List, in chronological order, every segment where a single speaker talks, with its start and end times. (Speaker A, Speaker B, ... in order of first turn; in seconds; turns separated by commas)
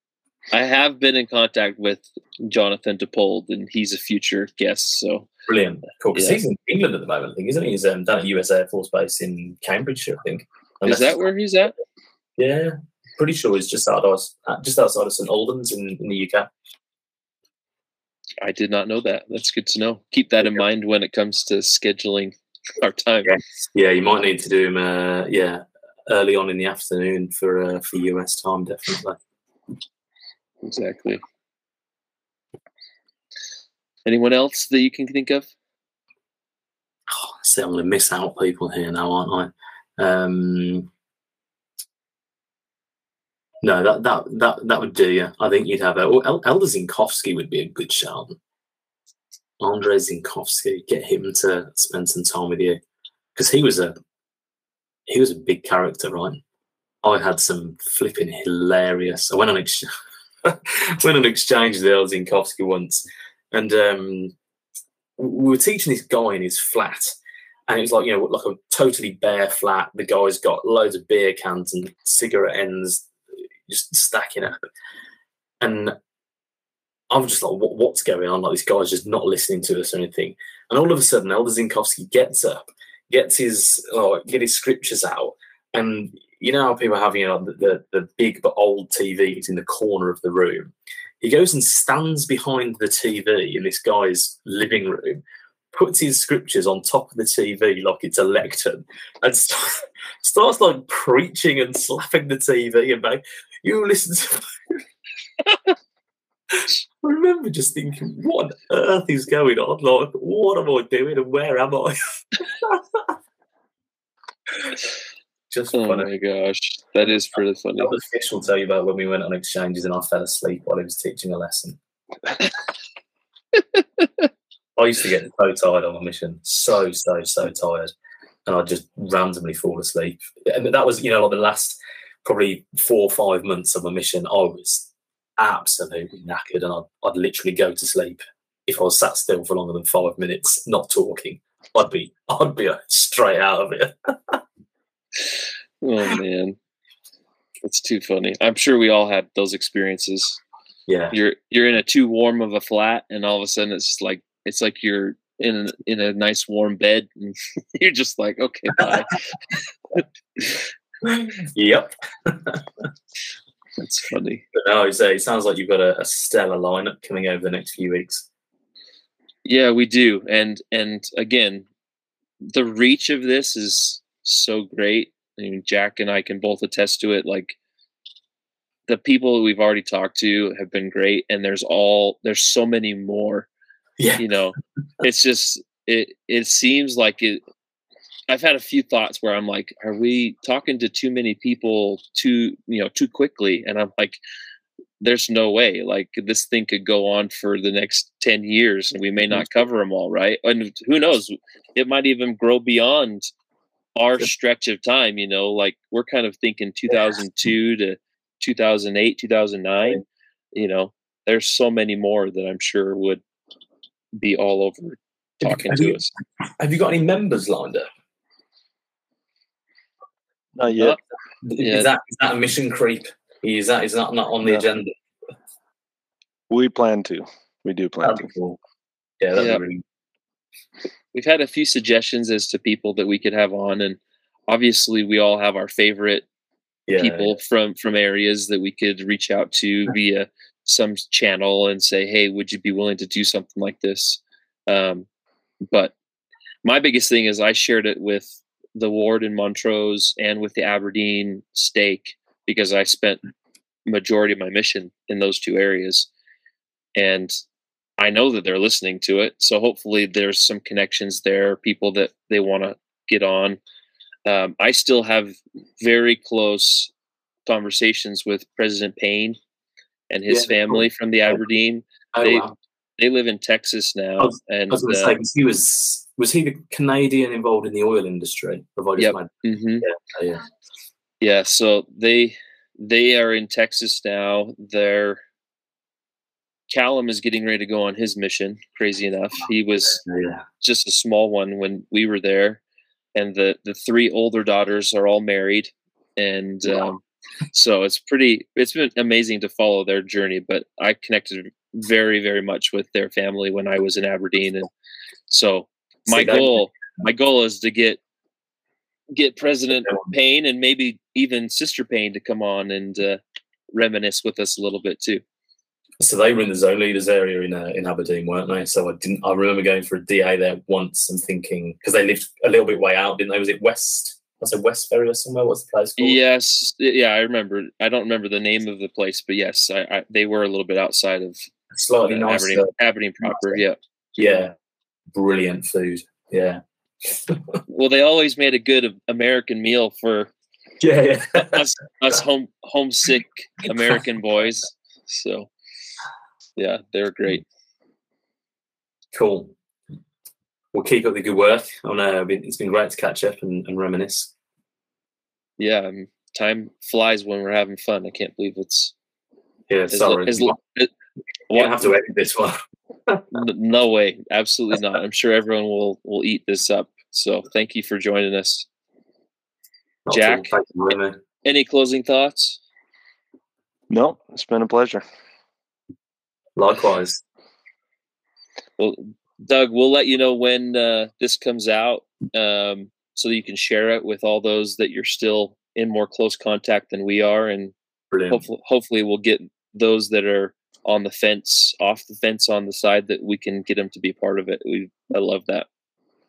Speaker A: 0.5-5.3, Speaker B: 5.5-11.2, Speaker A: 6.2-6.4, Speaker A: 10.8-11.8, Speaker B: 12.4-16.5, Speaker A: 18.4-23.4, Speaker B: 23.2-29.2, Speaker A: 30.6-31.2, Speaker A: 34.1-35.5, Speaker B: 37.1-40.9, Speaker B: 43.6-48.4, Speaker B: 49.6-52.8, Speaker B: 53.4-54.0, Speaker B: 55.1-56.4, Speaker B: 57.0-59.9, Speaker B: 60.4-64.3, Speaker B: 65.2-67.2, Speaker B: 67.7-73.1, Speaker B: 73.7-74.7, Speaker B: 75.6-76.0, Speaker B: 77.1-104.8, Speaker B: 106.5-113.1, Speaker B: 115.5-116.1, Speaker A: 115.7-118.0, Speaker B: 117.8-121.8, Speaker B: 124.8-127.9, Speaker B: 128.5-144.4, Speaker A: 145.8-146.6, Speaker A: 147.6-150.4, Speaker B: 150.9-151.2, Speaker A: 151.1-159.3, Speaker A: 160.0-160.6, Speaker B: 161.0-162.9, Speaker A: 163.8-164.4, Speaker B: 164.5-168.3, Speaker A: 169.4-171.7, Speaker A: 172.5-177.6, Speaker A: 178.9-183.5, Speaker B: 184.0-184.2, Speaker A: 184.2-187.4, Speaker A: 188.3-194.2, Speaker A: 195.0-203.3, Speaker A: 204.0-210.0, Speaker A: 210.6-213.2, Speaker A: 214.2-216.1, Speaker B: 215.4-216.0, Speaker B: 216.6-217.9, Speaker C: 220.6-221.0, Speaker A: 220.7-221.0, Speaker B: 221.4-224.9, Speaker A: 221.6-221.9, Speaker C: 226.5-228.3, Speaker B: 228.0-228.6, Speaker B: 229.2-229.8, Speaker A: 229.4-229.6, Speaker A: 231.1-236.3, Speaker B: 236.9-237.3, Speaker A: 237.0-245.1, Speaker A: 246.6-253.2, Speaker A: 253.9-256.1, Speaker A: 257.0-257.4, Speaker A: 258.0-263.6, Speaker A: 264.3-266.9, Speaker A: 267.5-269.4, Speaker A: 270.1-272.5, Speaker B: 270.3-271.4, Speaker B: 272.1-272.5, Speaker A: 273.0-275.1, Speaker B: 274.2-280.4, Speaker A: 279.0-279.9, Speaker A: 281.2-285.2, Speaker A: 286.7-290.0, Speaker B: 289.9-290.4, Speaker A: 290.6-292.6, Speaker A: 293.1-297.0, Speaker A: 297.5-304.7, Speaker A: 305.3-308.0, Speaker B: 306.1-306.6, Speaker A: 309.1-313.2, Speaker A: 313.7-315.2, Speaker B: 316.0-326.2, Speaker A: 326.0-331.4, Speaker B: 331.7-332.7, Speaker A: 332.1-333.8, Speaker B: 333.2-333.6, Speaker B: 334.2-334.5, Speaker B: 335.1-337.6, Speaker A: 337.7-340.3, Speaker B: 340.8-341.7, Speaker A: 341.5-345.5, Speaker A: 346.6-347.4, Speaker B: 349.1-349.5, Speaker B: 350.7-354.3, Speaker A: 355.6-358.9, Speaker B: 359.7-360.6, Speaker A: 359.9-360.9, Speaker A: 361.5-361.9, Speaker B: 361.5-362.6, Speaker B: 363.1-363.4, Speaker A: 363.3-368.7, Speaker B: 370.1-371.2, Speaker A: 370.1-370.5, Speaker A: 371.4-372.6, Speaker C: 373.9-375.0, Speaker B: 376.6-377.2, Speaker A: 378.8-387.7, Speaker B: 388.1-388.4, Speaker A: 388.3-395.7